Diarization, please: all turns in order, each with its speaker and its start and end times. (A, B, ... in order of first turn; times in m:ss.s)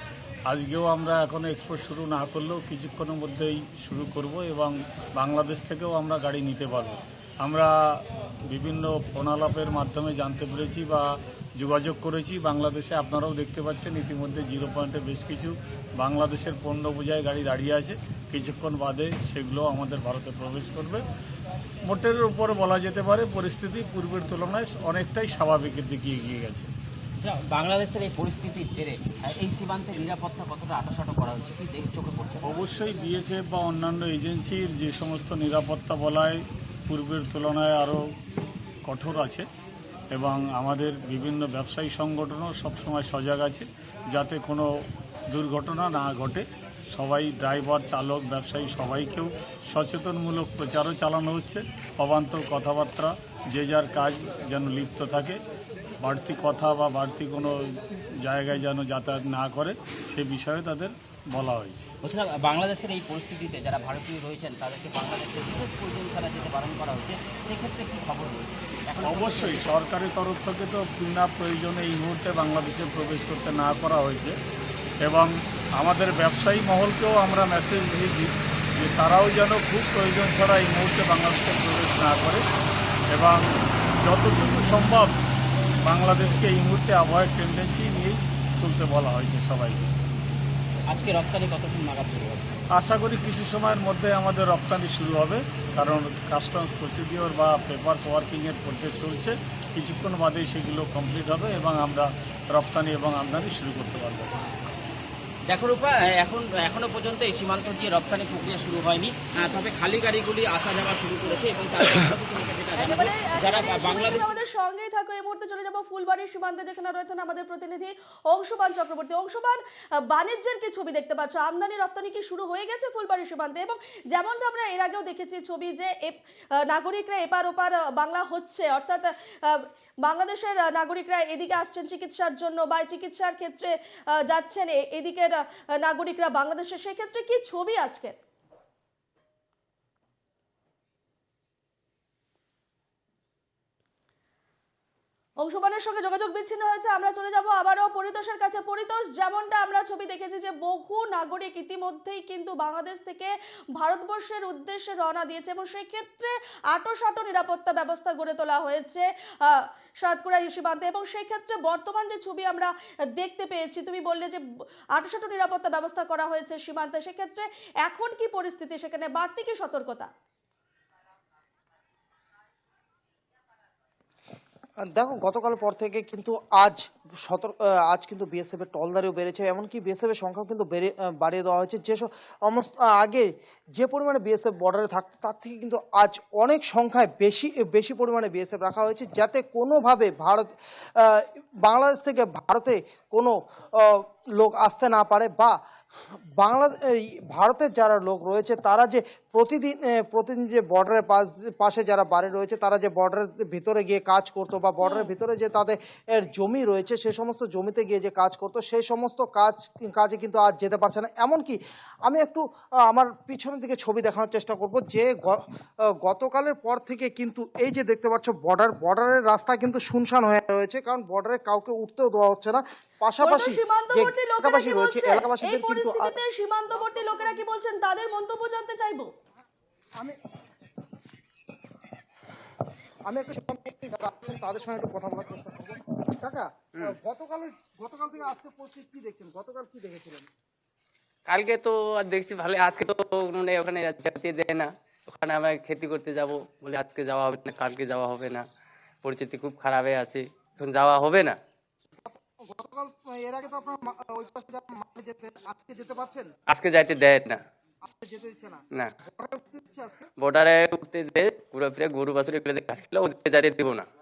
0:00.5-0:21.0 A
0:21.9-0:26.7 A
0:27.2-0:32.6 B
0:32.4-0:38.0 A
0:38.8-0:39.5 A
0:40.1-0:44.7 A
0:45.3-0:55.4 A
0:56.0-1:01.9 A
1:02.0-1:09.7 B
1:09.0-1:14.4 A
1:15.0-1:22.4 A
1:23.1-1:23.4 A
1:24.0-1:25.1 A
1:25.8-1:29.9 A
1:30.9-1:32.5 B
1:32.7-1:44.4 A
1:45.5-1:54.3 B
1:52.8-2:18.2 C
2:25.4-2:44.4 C
2:44.9-2:50.1 C
2:54.9-3:15.6 D
3:16.4-3:35.4 D
3:24.8-3:25.1 C
3:36.0-3:46.2 D
3:43.2-3:49.1 C
3:46.8-3:47.4 D
3:53.1-4:00.3 D
4:01.3-4:08.5 E
4:09.0-4:11.4 E
4:12.0-4:16.3 D
4:16.5-4:17.4 E
4:17.8-4:20.1 D
4:20.2-4:23.9 E